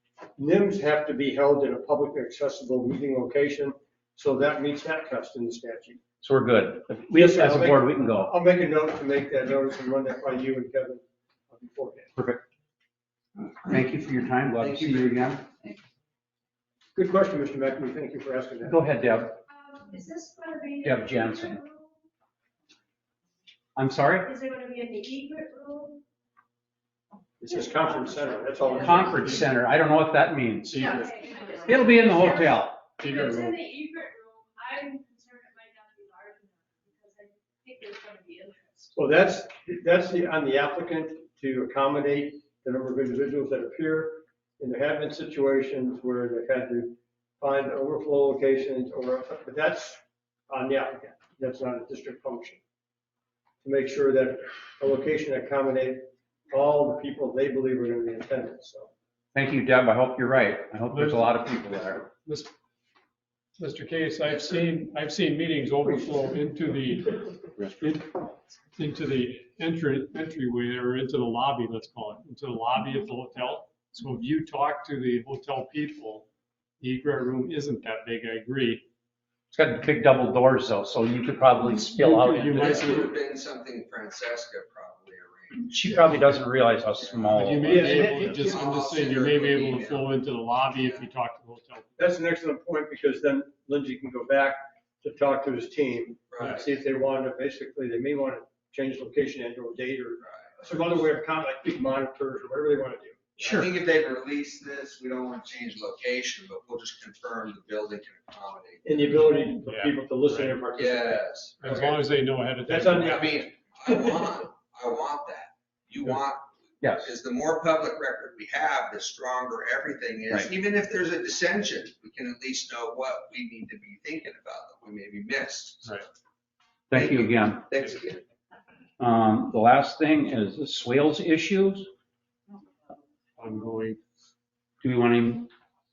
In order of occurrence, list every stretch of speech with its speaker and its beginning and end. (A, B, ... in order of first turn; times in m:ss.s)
0:00.4-0:06.0 A
0:06.2-0:08.3 B
0:07.1-0:12.1 A
0:12.2-0:12.4 B
0:13.6-0:15.5 B
0:16.9-0:18.8 A
0:18.6-0:19.4 B
0:19.5-0:21.9 C
0:20.8-0:21.6 B
0:23.8-0:24.3 B
0:24.2-0:26.0 C
0:27.4-0:29.4 A
0:28.6-0:29.0 C
0:28.8-0:31.1 B
0:29.2-0:29.4 D
0:30.7-0:31.6 D
0:30.9-0:38.9 C
0:31.6-0:32.8 B
0:33.0-0:33.6 D
0:38.9-0:52.6 A
0:53.6-0:58.9 A
0:59.3-1:02.1 B
1:00.9-1:01.4 D
1:02.2-1:02.5 D
1:03.6-1:16.2 D
1:16.8-1:18.8 D
1:19.5-1:22.9 B
1:21.7-1:23.2 D
1:22.5-1:25.8 E
1:25.6-1:28.3 B
1:27.0-1:30.1 E
1:27.3-1:32.0 D
1:27.7-1:28.5 A
1:30.8-1:31.0 E
1:32.0-1:43.6 A
1:36.3-1:36.6 E
1:40.2-1:41.1 E
1:43.4-1:43.7 B
1:43.4-1:48.9 E
1:48.8-1:51.8 A
1:49.6-1:50.6 D
1:50.8-1:52.0 E
1:51.6-1:53.4 D
1:52.6-1:54.2 A
1:53.0-2:06.0 E
1:56.8-1:57.1 B
2:06.9-2:07.6 B
2:06.9-2:08.2 E
2:09.0-2:11.9 B
2:13.4-2:14.0 D
2:14.8-2:15.5 B